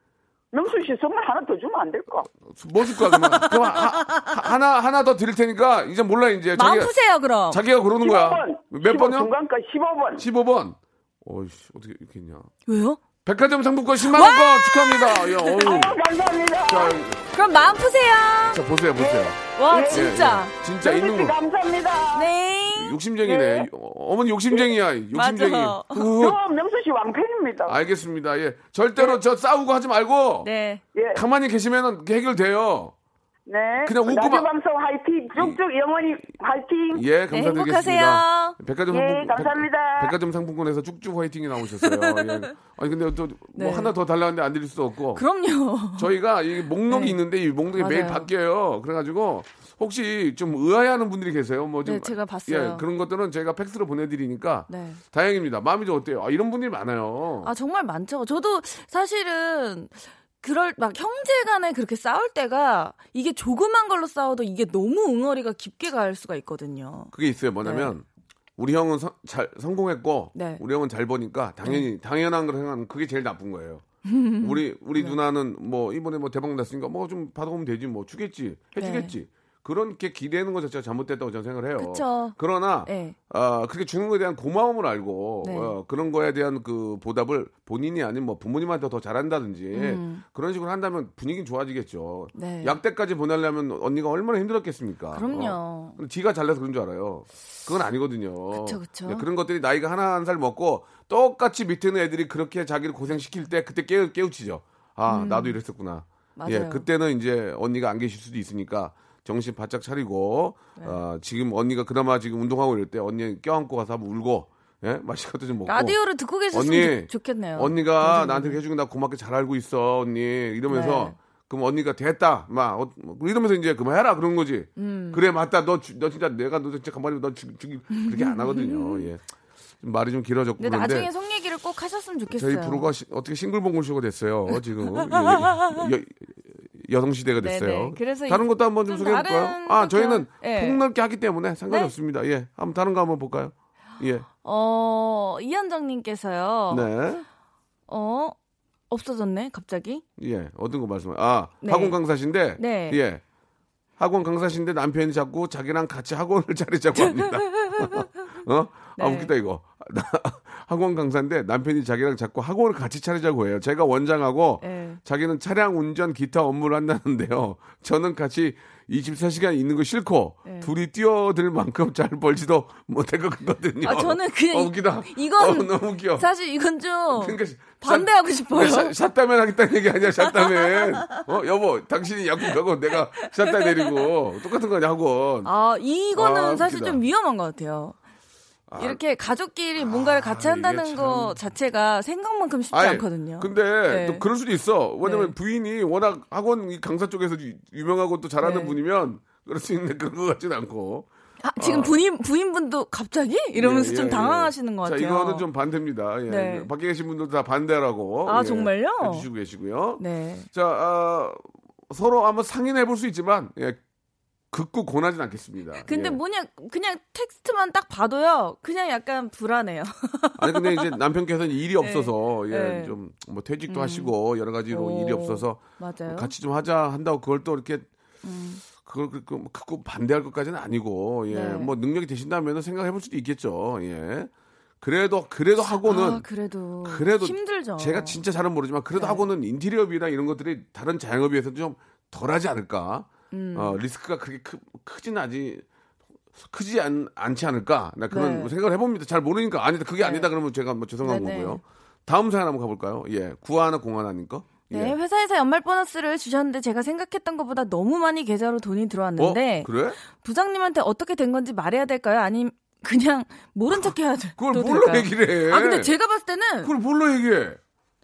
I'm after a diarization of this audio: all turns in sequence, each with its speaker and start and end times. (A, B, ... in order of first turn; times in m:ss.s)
0:00.5-0:02.3 A
0:02.5-0:06.9 B
0:02.9-0:04.3 C
0:06.6-0:07.6 C
0:07.5-0:09.3 B
0:08.0-0:10.2 A
0:10.2-0:12.5 B
0:12.7-0:13.0 C
0:13.2-0:16.0 B
0:14.0-0:15.9 C
0:15.6-0:17.0 A
0:16.7-0:17.3 B
0:17.3-0:18.6 C
0:18.5-0:21.3 B
0:19.0-0:20.1 A
0:19.5-0:20.5 C
0:20.8-0:22.3 A
0:22.1-0:23.0 C
0:22.7-0:26.4 B
0:23.2-0:23.6 A
0:25.1-0:26.1 C
0:26.0-0:27.8 A
0:27.7-0:30.5 B
0:30.4-0:30.8 C
0:30.9-0:31.2 A
0:31.1-0:32.9 B
0:33.5-0:37.0 A
0:33.8-0:34.5 B
0:36.9-0:45.2 B
0:37.3-0:38.6 C
0:38.9-0:40.1 A
0:41.8-0:42.5 C
0:43.5-0:43.9 C
0:45.1-0:46.1 C
0:46.0-0:57.5 B
0:46.9-0:47.2 C
0:47.8-0:48.3 C
0:51.8-0:52.8 C
0:54.7-0:55.0 C
0:57.4-1:07.9 C
1:07.1-1:08.0 B
1:08.6-1:13.8 B
1:10.3-1:10.6 C
1:14.0-1:15.2 C
1:14.4-1:56.0 B
1:18.8-1:19.1 C
1:21.8-1:23.2 C
1:25.4-1:25.7 C
1:29.7-1:30.2 C
1:32.3-1:32.8 C
1:35.1-1:36.0 C
1:38.5-1:39.2 C
1:45.1-1:45.6 C
1:46.4-1:46.8 C
1:55.6-1:58.6 C
1:56.5-2:09.2 B
2:00.7-2:01.1 C
2:04.8-2:05.2 C
2:07.9-2:09.1 C
2:09.8-2:11.1 B
2:10.6-2:12.9 C
2:12.3-2:24.3 B
2:14.9-2:15.9 C
2:17.4-2:20.8 C
2:24.4-2:26.9 C
2:26.7-2:27.2 B
2:27.9-2:28.3 C
2:28.9-2:30.0 C
2:30.2-2:33.2 B
2:31.6-2:32.0 C
2:32.6-2:33.0 C
2:34.0-2:56.3 B
2:36.9-2:38.3 C
2:39.0-2:39.3 C
2:44.6-2:45.0 C
2:50.4-2:50.7 C
2:53.8-2:58.9 C
2:57.1-3:05.5 B
3:00.2-3:01.2 C
3:03.1-3:04.0 C
3:05.4-3:08.0 C
3:06.1-3:07.0 B
3:08.7-3:09.0 B
3:08.8-3:14.2 C
3:09.8-3:11.4 B
3:12.7-3:21.9 B
3:15.0-3:15.3 C
3:18.4-3:18.8 C
3:21.4-3:25.5 C
3:23.5-3:33.8 B
3:26.3-3:26.7 C
3:28.2-3:29.3 C
3:30.0-3:30.5 C
3:34.5-3:36.2 B
3:35.8-3:41.0 C
3:40.4-3:47.9 B
3:41.8-3:42.9 C
3:43.7-3:44.1 C
3:44.7-3:46.3 C
3:48.2-3:48.6 C
3:48.7-3:56.2 B
3:51.3-3:51.7 C
3:55.7-3:58.2 C
3:56.8-4:05.6 B
3:58.9-3:59.2 C
4:03.3-4:03.8 C
4:06.4-4:15.0 B
4:08.1-4:08.5 C
4:10.0-4:10.3 C
4:11.0-4:11.6 C
4:14.7-4:26.7 C
4:19.2-4:20.0 B
4:23.7-4:25.9 B
4:26.6-4:27.6 B